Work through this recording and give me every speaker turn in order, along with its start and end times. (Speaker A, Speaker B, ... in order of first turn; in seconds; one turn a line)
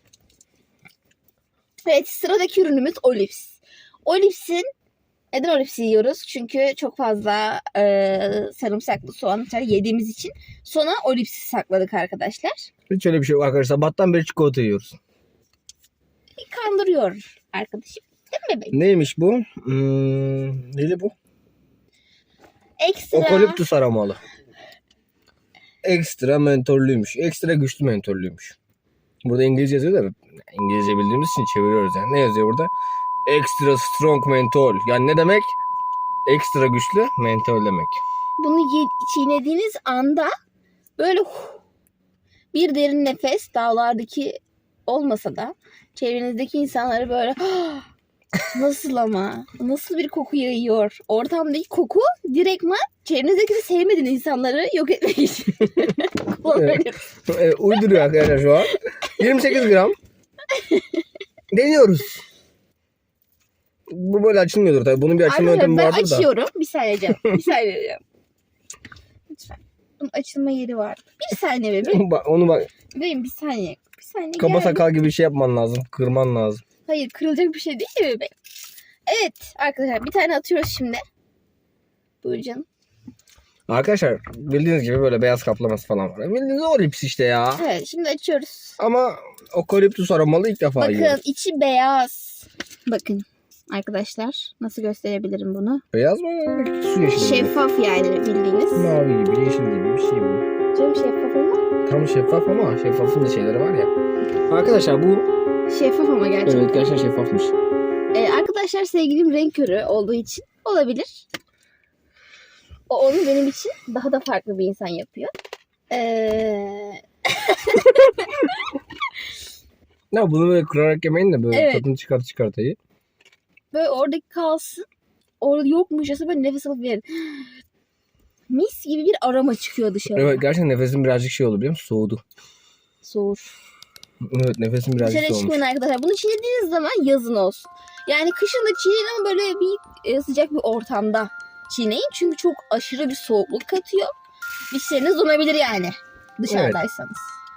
Speaker A: 1.9-4.7
Speaker A: 5.3-12.7
Speaker B: 12.9-15.0
Speaker A: 16.4-18.7
Speaker B: 18.7-21.1
Speaker A: 22.8-23.6
Speaker B: 23.1-24.2
Speaker B: 25.8-28.6
Speaker B: 29.2-32.7
Speaker B: 33.3-35.6
Speaker B: 36.3-38.0
Speaker A: 38.4-40.3
Speaker A: 41.0-41.6
Speaker A: 42.5-47.9
Speaker A: 48.5-57.1
Speaker B: 56.5-60.0
Speaker A: 57.8-58.0
Speaker A: 60.5-61.0
Speaker B: 61.5-62.2
Speaker B: 63.9-66.3
Speaker A: 65.2-68.0
Speaker A: 69.3-72.0
Speaker B: 71.9-72.7
Speaker A: 72.9-74.8
Speaker B: 74.4-76.6
Speaker A: 76.9-78.3
Speaker A: 79.1-81.0
Speaker A: 82.2-82.7
Speaker B: 83.7-87.7
Speaker A: 87.6-88.8
Speaker B: 88.8-91.2
Speaker A: 90.8-95.8
Speaker B: 95.9-97.5
Speaker A: 97.1-99.0
Speaker B: 98.8-100.4
Speaker A: 100.7-101.6
Speaker B: 101.9-103.9
Speaker B: 104.5-105.3
Speaker A: 105.7-106.9
Speaker B: 106.5-107.5
Speaker A: 108.1-111.3
Speaker A: 112.9-115.3
Speaker A: 115.9-118.6
Speaker B: 120.1-122.8
Speaker A: 121.5-121.8
Speaker A: 123.7-124.8
Speaker A: 125.4-127.5
Speaker A: 128.5-130.4
Speaker B: 130.2-132.2
Speaker A: 133.0-133.5
Speaker B: 134.3-135.6
Speaker A: 135.0-144.1
Speaker A: 144.7-147.3
Speaker B: 146.5-146.8